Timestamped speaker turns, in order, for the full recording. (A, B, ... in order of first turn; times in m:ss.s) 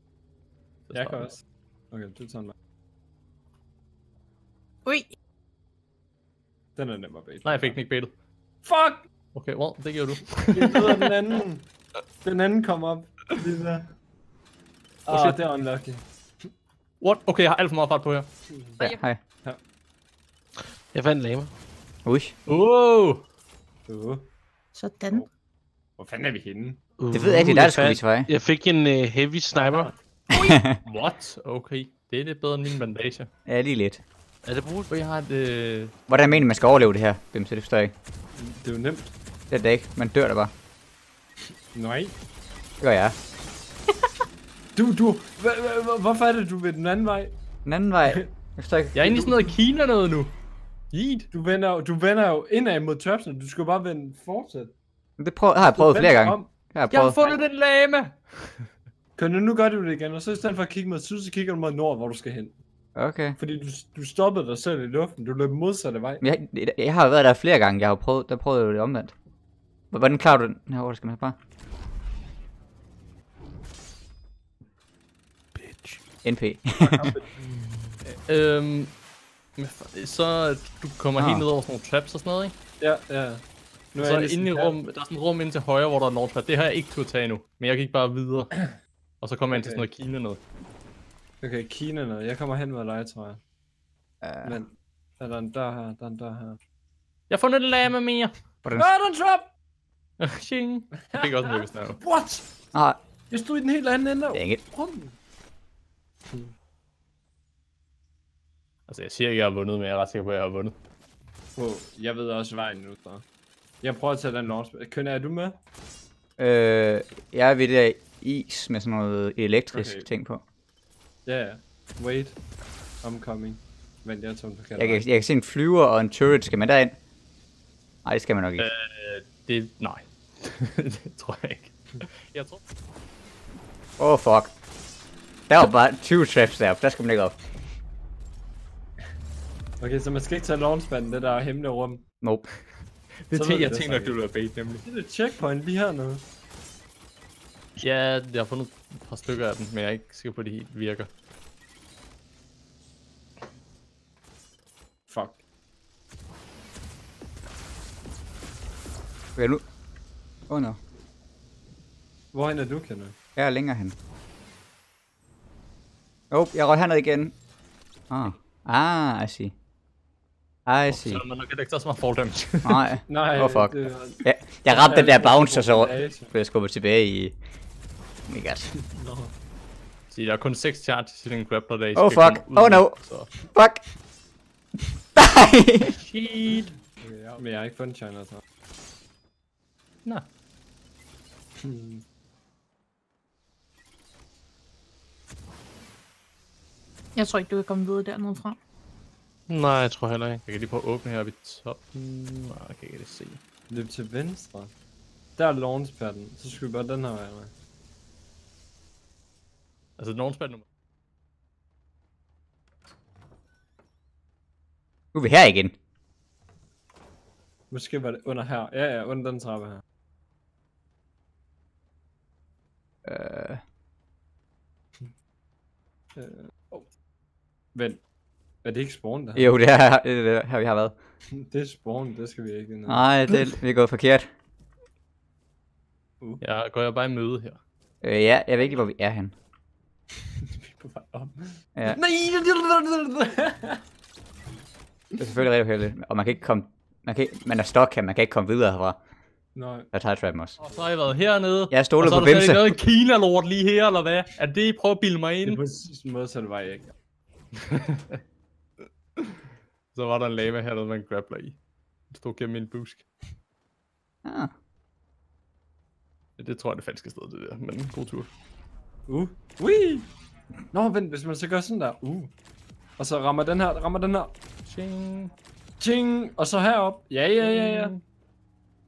0:00.9-0:01.3 A
0:00.9-0:02.5 B
0:04.8-0:05.1 C
0:06.8-0:07.8 B
0:07.4-0:08.1 A
0:08.6-0:09.0 B
0:09.3-0:11.1 A
0:10.5-0:11.7 B
0:12.2-0:13.9 B
0:15.1-0:16.0 B
0:15.1-0:15.4 A
0:17.0-0:18.3 A
0:18.5-0:18.8 B
0:18.8-0:19.2 D
0:20.9-0:21.5 E
0:22.1-0:22.3 D
0:22.5-0:23.2 A
0:23.9-0:24.2 B
0:24.7-0:25.2 C
0:26.0-0:26.8 B
0:27.0-0:29.9 E
0:27.1-0:28.3 D
0:29.6-0:29.9 B
0:30.3-0:30.6 C
0:30.4-0:30.8 D
0:30.8-0:33.3 A
0:33.5-0:34.0 D
0:34.4-0:34.9 E
0:34.9-0:35.9 A
0:36.1-0:37.9 D
0:38.4-0:39.1 B
0:39.5-0:40.5 D
0:41.8-0:42.2 B
0:42.8-0:43.2 D
0:44.8-0:47.3 B
0:47.6-0:49.3 D
0:48.9-0:50.4 A
0:50.9-0:51.3 A
0:51.3-0:54.7 B
0:55.2-0:57.2 D
0:55.6-0:56.5 B
0:56.9-0:58.7 A
0:59.2-1:02.6 B
1:03.0-1:03.4 D
1:03.4-1:06.2 B
1:06.2-1:09.2 D
1:09.9-1:11.4 D
1:15.6-1:16.0 E
1:16.2-1:17.1 D
1:16.8-1:17.3 B
1:18.1-1:19.0 A
1:19.6-1:22.5 A
1:21.2-1:21.5 D
1:22.8-1:23.4 B
1:23.9-1:24.8 B
1:24.0-1:28.6 A
1:29.2-1:30.4 A
1:29.5-1:29.9 B
1:31.4-1:33.4 B
1:34.2-1:34.5 D
1:34.4-1:36.6 B
1:37.3-1:38.4 A
1:38.8-1:39.5 B
1:40.2-1:42.0 A
1:41.1-1:42.4 B
1:42.7-1:43.0 D
1:43.3-1:45.1 B
1:44.3-1:44.6 D
1:48.9-1:50.8 A
1:51.6-1:53.2 B
1:53.8-1:55.6 B
1:56.4-2:00.4 D
1:59.7-2:00.1 B
2:01.3-2:02.4 B
2:03.0-2:05.0 B
2:04.8-2:07.0 D
2:08.0-2:08.7 D
2:08.6-2:12.6 A
2:14.0-2:14.5 D
2:15.5-2:17.3 D
2:19.8-2:22.0 B
2:22.2-2:22.5 D
2:23.3-2:24.8 A
2:23.3-2:24.2 B
2:24.8-2:26.2 B
2:27.8-2:31.1 A
2:35.1-2:35.4 B
2:39.4-2:39.6 D
2:40.5-2:40.8 D
2:42.3-2:43.2 B
2:43.4-2:43.9 D
2:46.3-2:47.3 D
2:48.1-2:49.5 D
2:50.7-2:51.2 D
2:50.9-2:52.8 A
2:52.6-2:57.4 D
2:53.1-2:56.3 B
2:58.3-2:58.7 D
2:58.9-2:59.3 B
3:00.1-3:03.3 A
3:01.9-3:03.8 D
3:05.2-3:05.9 D
3:05.9-3:06.8 A
3:07.0-3:08.4 B
3:11.6-3:12.0 B
3:17.2-3:18.6 C
3:19.5-3:20.4 E
3:20.4-3:23.4 A
3:23.7-3:24.7 B
3:25.4-3:27.5 B
3:30.0-3:30.6 A
3:35.1-3:35.8 D
3:37.7-3:39.8 B
3:43.1-3:43.6 D
3:46.2-3:46.9 B
3:47.8-3:48.0 B
3:48.6-3:49.5 B
3:49.3-3:51.0 D
3:51.3-3:53.4 B
3:52.9-3:54.3 D
3:56.4-3:57.6 A
3:58.0-3:59.3 D
4:00.8-4:03.8 B
4:05.2-4:09.0 D
4:09.6-4:09.9 B
4:09.9-4:10.6 D
4:10.6-4:15.6 A
4:11.7-4:12.8 D
4:15.4-4:16.9 B
4:17.7-4:18.2 A
4:19.9-4:21.6 A
4:22.1-4:23.1 A
4:24.2-4:24.5 D
4:26.4-4:28.3 A
4:29.1-4:30.1 B
4:30.7-4:32.3 B
4:33.0-4:34.3 B
4:34.7-4:35.3 A
4:35.8-4:38.0 B
4:37.4-4:38.0 A